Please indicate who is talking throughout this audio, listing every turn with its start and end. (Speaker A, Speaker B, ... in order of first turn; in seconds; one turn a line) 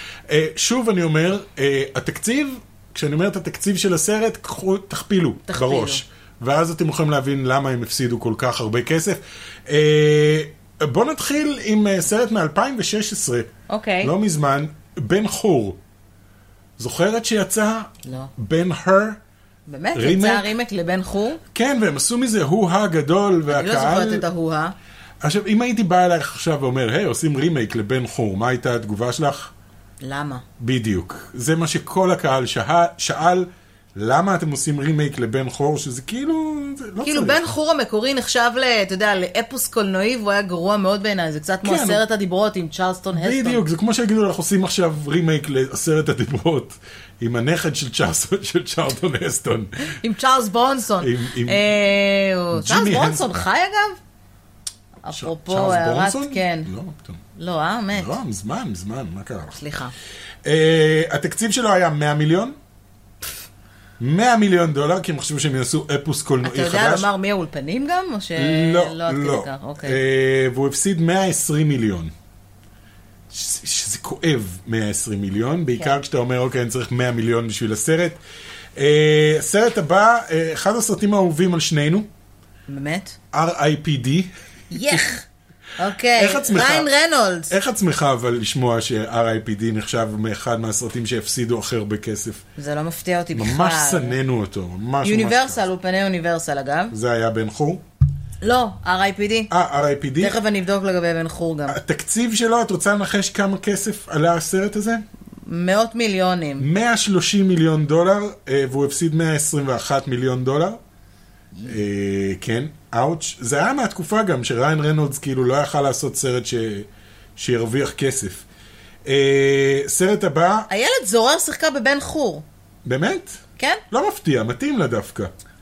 Speaker A: 0.3-13.5
Speaker B: 5.5-6.0
Speaker B: 13.7-14.1
Speaker A: 14.0-15.8
Speaker A: 16.8-19.2
Speaker B: 18.1-18.3
Speaker B: 19.7-21.4
Speaker A: 19.9-20.5
Speaker A: 21.5-24.2
Speaker B: 23.5-24.8
Speaker A: 25.2-29.5
Speaker B: 30.0-30.4
Speaker A: 30.6-37.5
Speaker B: 37.0-43.6
Speaker A: 41.6-42.0
Speaker A: 43.1-50.0
Speaker B: 49.9-54.0
Speaker A: 51.0-51.6
Speaker A: 52.5-53.5
Speaker B: 55.0-56.7
Speaker A: 55.1-57.2
Speaker B: 57.4-58.2
Speaker A: 57.9-59.6
Speaker B: 59.5-59.9
Speaker A: 60.4-62.6
Speaker A: 64.0-67.1
Speaker B: 66.4-70.0
Speaker A: 68.4-72.1
Speaker A: 73.3-78.2
Speaker A: 78.8-82.1
Speaker B: 82.7-83.2
Speaker A: 83.3-85.0
Speaker B: 84.7-85.2
Speaker B: 85.8-87.5
Speaker A: 86.1-86.9
Speaker A: 87.5-92.4
Speaker B: 92.6-94.2
Speaker A: 93.3-95.6
Speaker B: 95.0-97.0
Speaker A: 96.9-97.8
Speaker B: 98.4-99.5
Speaker A: 99.5-100.4
Speaker B: 100.2-101.8
Speaker A: 101.7-105.0
Speaker B: 105.5-106.7
Speaker A: 106.6-110.8
Speaker A: 111.7-118.5
Speaker A: 119.0-120.7
Speaker B: 120.7-122.5
Speaker A: 122.8-125.3